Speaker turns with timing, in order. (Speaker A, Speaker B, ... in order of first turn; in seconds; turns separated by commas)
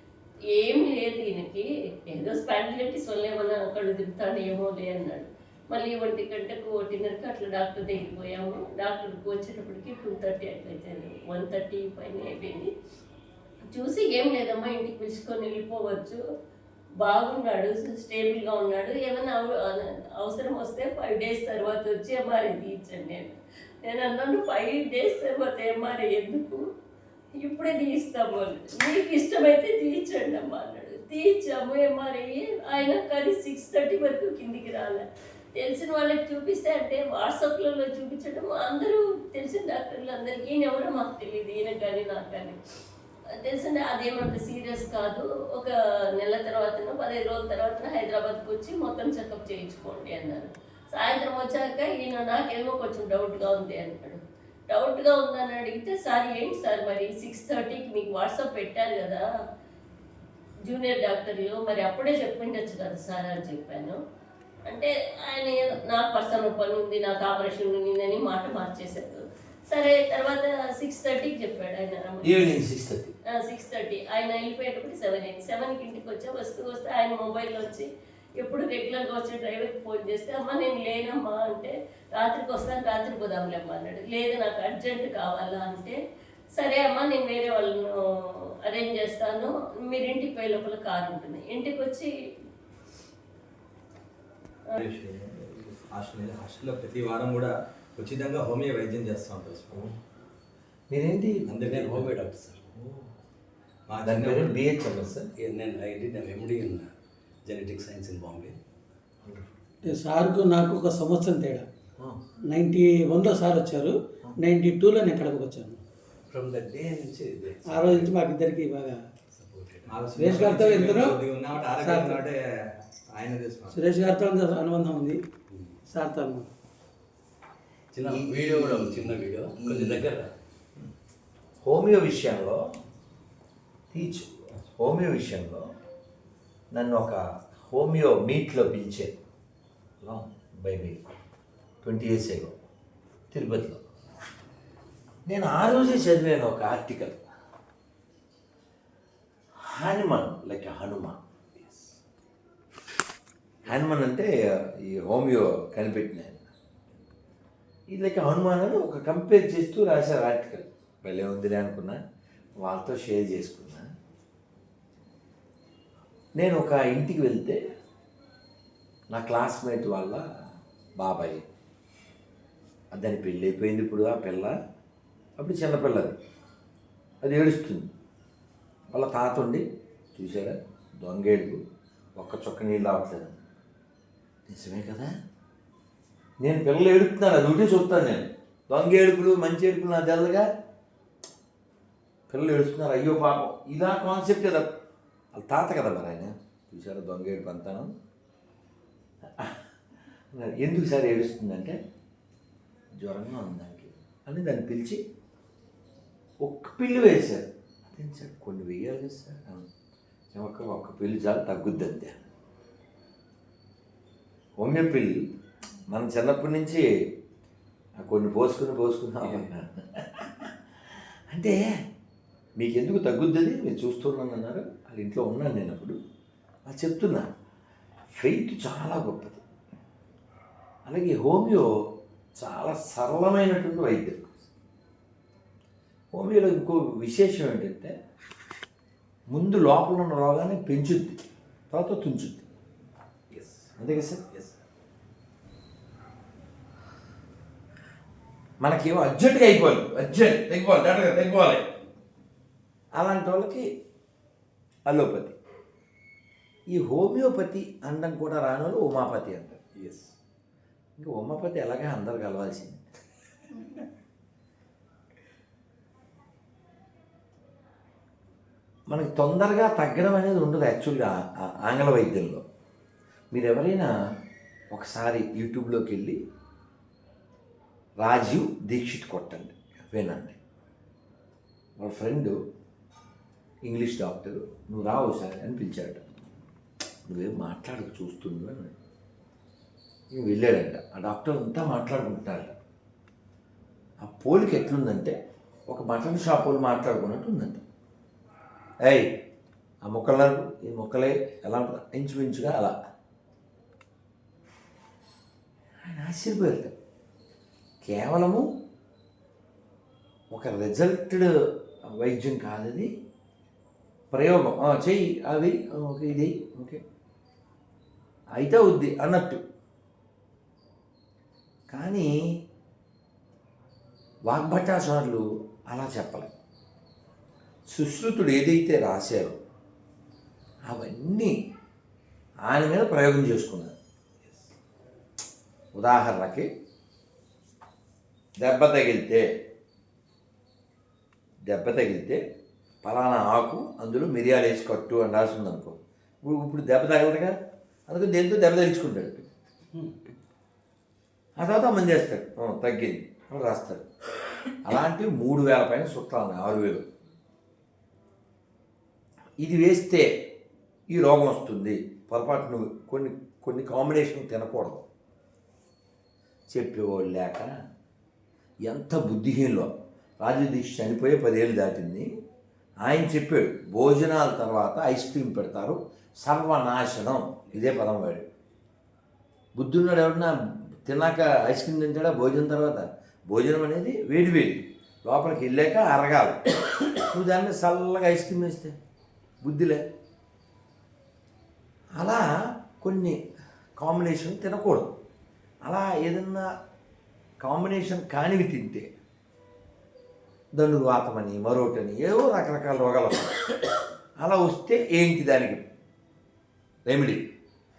Speaker A: 0.5-12.7, Speaker A: 13.7-16.2, Speaker A: 17.0-26.6, Speaker A: 27.4-42.6, Speaker A: 43.3-59.2, Speaker A: 60.6-64.0, Speaker A: 64.6-72.4, Speaker B: 72.2-73.2, Speaker A: 73.3-77.9, Speaker A: 78.4-86.0, Speaker A: 86.5-92.1, Speaker C: 94.7-99.9, Speaker B: 100.9-101.5, Speaker C: 101.5-102.1, Speaker D: 101.6-102.6, Speaker B: 102.8-103.1, Speaker C: 103.9-104.7, Speaker B: 104.0-105.3, Speaker D: 105.4-106.9, Speaker D: 107.5-108.5, Speaker E: 109.9-111.7, Speaker E: 112.5-115.8, Speaker D: 116.3-118.1, Speaker E: 117.7-119.0, Speaker D: 119.4-120.0, Speaker C: 119.9-122.4, Speaker E: 120.2-122.2, Speaker C: 123.1-123.8, Speaker E: 123.7-125.2, Speaker D: 125.5-125.8, Speaker E: 125.9-126.5, Speaker D: 127.9-130.3, Speaker B: 128.1-130.1, Speaker B: 131.6-132.6, Speaker B: 133.9-135.7, Speaker B: 136.7-139.2, Speaker B: 140.0-141.0, Speaker B: 141.8-142.5, Speaker B: 143.3-143.8, Speaker B: 145.3-147.2, Speaker B: 149.7-151.2, Speaker D: 151.6-151.9, Speaker B: 153.7-156.4, Speaker B: 157.9-162.0, Speaker B: 162.6-163.9, Speaker B: 166.4-167.6, Speaker B: 169.1-170.2, Speaker B: 171.0-171.4, Speaker B: 172.9-174.6, Speaker B: 175.4-176.2, Speaker B: 177.2-177.9, Speaker B: 178.9-181.6, Speaker B: 182.2-183.4, Speaker B: 184.5-185.1, Speaker B: 186.4-190.5, Speaker B: 192.3-194.7, Speaker B: 195.3-197.9, Speaker B: 200.3-201.8, Speaker B: 203.0-205.0, Speaker B: 206.4-209.7, Speaker B: 210.3-212.2, Speaker B: 214.6-215.2, Speaker B: 215.9-216.9, Speaker B: 218.0-221.7, Speaker D: 219.2-219.5, Speaker B: 222.6-226.0, Speaker B: 226.7-227.3, Speaker B: 228.2-229.4, Speaker B: 230.9-231.7, Speaker B: 232.4-234.3, Speaker B: 236.1-237.9, Speaker B: 239.3-242.5, Speaker D: 243.3-243.7, Speaker B: 243.8-244.2, Speaker D: 244.3-244.6, Speaker B: 248.6-251.7, Speaker B: 253.0-253.7, Speaker B: 254.9-255.4, Speaker B: 256.7-259.6, Speaker D: 259.8-260.1, Speaker B: 261.0-262.9, Speaker B: 268.9-272.4, Speaker B: 273.3-273.9, Speaker B: 274.7-276.2, Speaker B: 278.0-280.4, Speaker B: 281.8-282.4, Speaker B: 283.6-286.0, Speaker B: 287.1-288.8, Speaker B: 290.1-292.6, Speaker B: 294.0-295.1, Speaker B: 295.7-297.6, Speaker B: 298.9-299.1, Speaker B: 299.9-302.8, Speaker B: 305.8-306.7, Speaker B: 307.8-308.5, Speaker B: 310.3-311.3, Speaker B: 311.9-312.9, Speaker B: 314.1-316.8, Speaker B: 318.4-319.4, Speaker B: 321.7-322.1, Speaker B: 324.3-326.3, Speaker B: 327.7-329.4, Speaker B: 330.7-331.4, Speaker B: 332.5-333.8, Speaker B: 335.8-336.5, Speaker B: 338.4-339.3, Speaker B: 341.5-342.2, Speaker B: 342.8-349.3, Speaker B: 351.4-353.9, Speaker B: 354.6-356.8, Speaker B: 359.4-360.3, Speaker B: 360.9-364.8, Speaker B: 366.5-367.5, Speaker B: 368.7-372.1, Speaker B: 372.8-378.3, Speaker D: 377.5-377.8, Speaker B: 379.6-380.3, Speaker B: 380.9-388.8, Speaker B: 389.4-389.8, Speaker B: 392.0-393.2, Speaker B: 393.8-395.0, Speaker B: 395.6-396.5, Speaker B: 397.4-398.9, Speaker B: 400.5-403.5, Speaker B: 404.2-405.7, Speaker B: 406.9-407.3